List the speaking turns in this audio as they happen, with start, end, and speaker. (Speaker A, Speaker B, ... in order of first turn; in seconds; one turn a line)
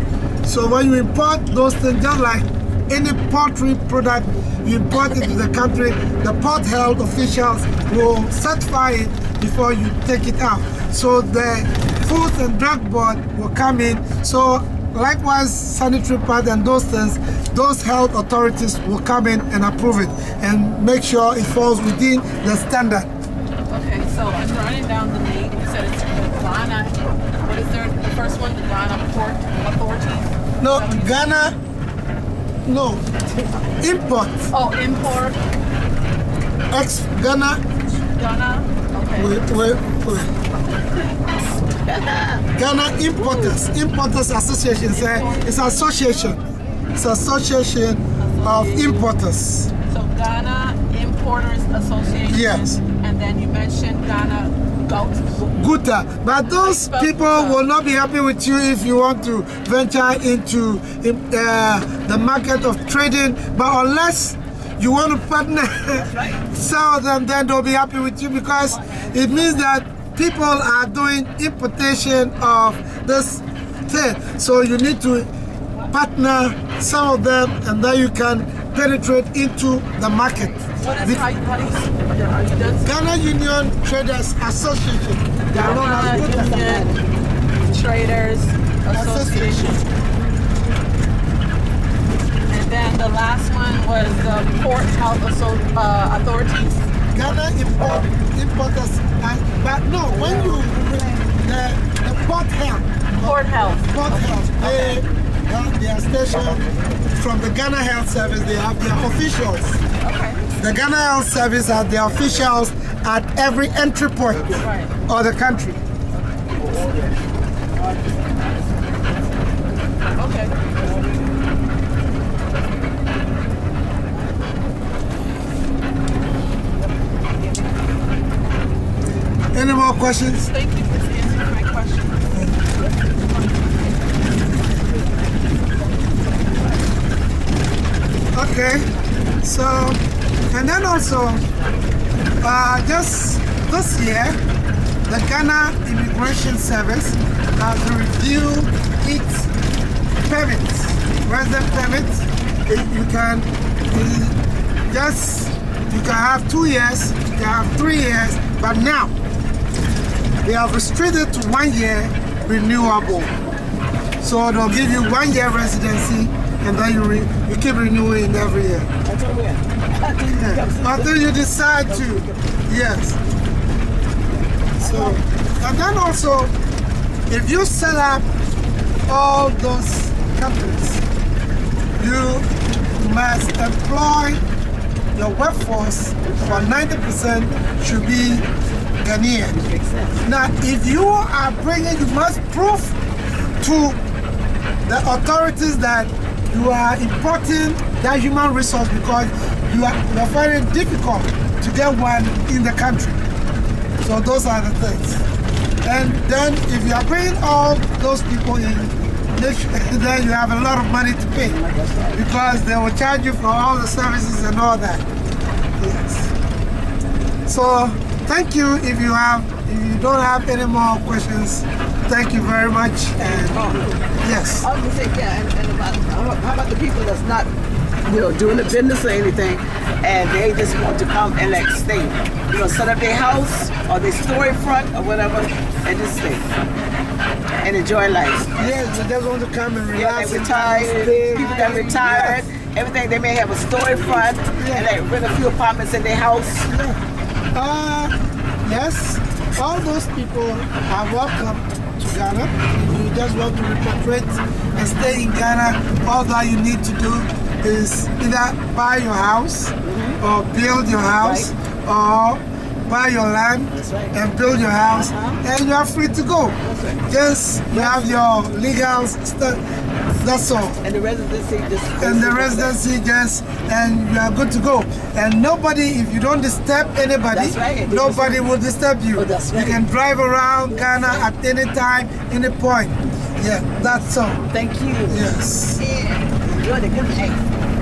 Speaker A: 0.4-23.1
Speaker B: 23.7-31.3
Speaker A: 30.6-31.6
Speaker A: 32.6-33.0
Speaker A: 33.8-34.5
Speaker B: 34.5-35.4
Speaker A: 36.7-37.6
Speaker B: 38.2-39.4
Speaker A: 39.1-40.3
Speaker C: 41.7-42.5
Speaker A: 42.5-46.4
Speaker C: 43.1-43.6
Speaker B: 44.9-45.9
Speaker A: 46.9-49.7
Speaker B: 48.2-49.1
Speaker B: 49.9-55.5
Speaker A: 52.3-52.8
Speaker A: 55.5-75.3
Speaker B: 56.5-57.6
Speaker C: 65.9-66.4
Speaker C: 68.7-69.7
Speaker A: 75.9-81.2
Speaker C: 80.3-81.2
Speaker B: 80.8-83.1
Speaker A: 82.8-86.6
Speaker C: 85.5-87.0
Speaker B: 85.5-86.9
Speaker B: 87.7-89.8
Speaker A: 88.9-89.7
Speaker B: 92.5-96.8
Speaker A: 97.1-109.8
Speaker C: 100.1-101.1
Speaker B: 103.2-105.0
Speaker B: 110.0-110.5
Speaker A: 110.6-115.8
Speaker B: 114.5-114.9
Speaker B: 116.1-116.5
Speaker C: 116.5-119.9
Speaker B: 120.2-120.5
Speaker C: 120.7-121.4
Speaker C: 124.1-124.5
Speaker C: 126.8-128.1
Speaker A: 129.5-130.5
Speaker B: 130.3-132.3
Speaker C: 132.7-137.0
Speaker A: 138.3-138.9
Speaker A: 139.4-140.0
Speaker A: 140.5-141.4
Speaker A: 142.4-144.4
Speaker A: 145.1-149.5
Speaker A: 150.2-154.4
Speaker A: 154.9-159.1
Speaker A: 160.4-163.4
Speaker A: 164.2-168.9
Speaker C: 169.0-171.3
Speaker A: 170.3-173.2
Speaker C: 171.9-172.4
Speaker C: 174.3-175.2
Speaker A: 174.8-176.5
Speaker A: 177.3-178.2
Speaker A: 179.1-181.0
Speaker A: 182.0-184.4
Speaker A: 185.1-188.4
Speaker C: 186.2-186.8
Speaker A: 189.0-189.5
Speaker C: 189.5-190.2
Speaker A: 190.2-193.0
Speaker A: 193.6-194.0
Speaker A: 194.8-203.2
Speaker A: 204.0-205.2
Speaker A: 205.8-211.6
Speaker C: 211.4-212.2
Speaker A: 212.1-215.0
Speaker A: 215.8-216.3
Speaker A: 217.5-224.7
Speaker C: 223.2-224.1
Speaker C: 224.6-227.5
Speaker C: 228.0-236.5
Speaker C: 237.6-238.9
Speaker A: 238.6-242.4
Speaker C: 239.9-246.7
Speaker B: 241.3-242.1
Speaker A: 244.6-244.9
Speaker A: 246.7-247.0
Speaker A: 247.5-248.1
Speaker A: 248.6-269.6
Speaker C: 259.8-260.2
Speaker C: 261.2-261.5
Speaker C: 263.7-264.1
Speaker C: 264.9-265.4
Speaker C: 266.6-267.1
Speaker C: 267.7-268.0
Speaker A: 270.2-270.8
Speaker C: 270.8-272.8
Speaker A: 272.0-284.4
Speaker C: 277.3-278.4
Speaker C: 279.1-279.8
Speaker C: 280.7-281.3
Speaker C: 284.5-285.2
Speaker A: 285.1-285.8
Speaker C: 285.8-287.5